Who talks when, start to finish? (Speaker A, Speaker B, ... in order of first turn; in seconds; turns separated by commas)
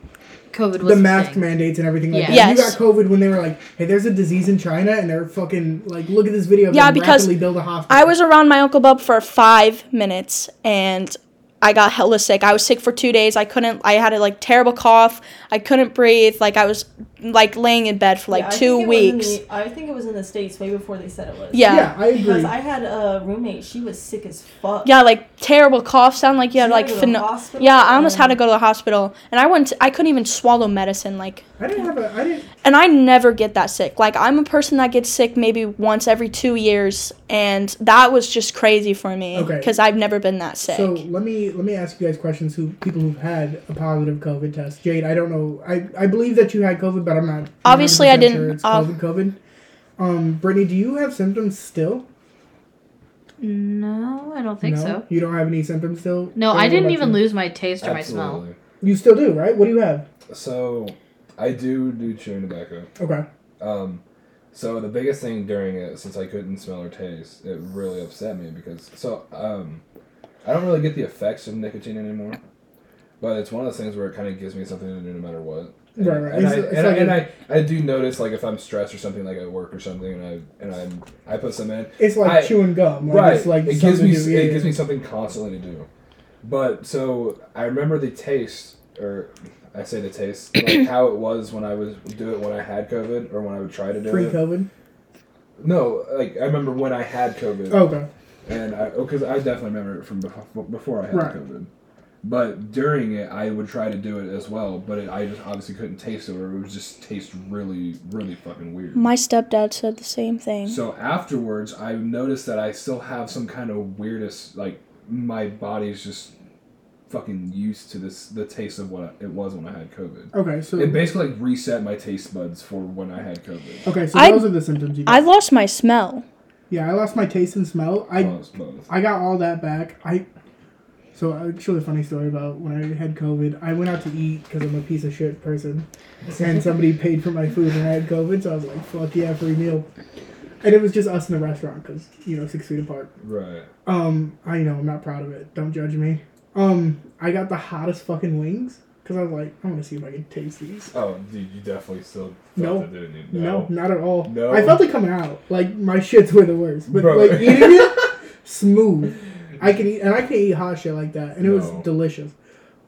Speaker A: 0.5-1.5, Speaker B: 0.8-8.1, Speaker A: 2.1-2.6, Speaker C: 2.3-2.7, Speaker C: 6.7-19.4, Speaker D: 18.3-24.9, Speaker C: 21.5-21.9, Speaker B: 21.7-22.5, Speaker C: 24.8-31.4, Speaker D: 26.6-28.4, Speaker B: 31.6-32.5, Speaker C: 32.6-41.0, Speaker B: 39.3-39.7, Speaker B: 40.6-49.4, Speaker C: 47.6-48.9, Speaker B: 50.0-52.0, Speaker A: 53.4-55.0, Speaker B: 54.6-57.2, Speaker A: 56.4-58.4, Speaker E: 57.8-58.6, Speaker B: 58.8-60.0, Speaker E: 60.3-62.9, Speaker B: 63.0-63.2, Speaker E: 63.6-69.8, Speaker E: 70.4-72.4, Speaker E: 73.2-85.9, Speaker B: 76.0-77.2, Speaker B: 82.0-84.7, Speaker E: 86.4-94.4, Speaker B: 94.0-94.7, Speaker E: 95.6-97.8, Speaker B: 97.7-98.1, Speaker E: 98.5-101.7, Speaker B: 101.1-101.4, Speaker E: 102.2-109.0, Speaker C: 108.9-110.8, Speaker E: 110.6-116.3, Speaker E: 117.1-123.8, Speaker B: 120.3-121.1, Speaker B: 123.8-125.2, Speaker C: 124.1-124.5, Speaker C: 125.0-126.2, Speaker B: 126.7-128.3, Speaker E: 128.2-128.9, Speaker B: 128.9-130.2, Speaker B: 131.1-139.9, Speaker B: 140.6-143.1, Speaker E: 143.2-143.7, Speaker B: 143.8-150.9, Speaker E: 150.9-154.8, Speaker B: 152.6-162.3, Speaker E: 156.9-158.1, Speaker E: 161.4-161.9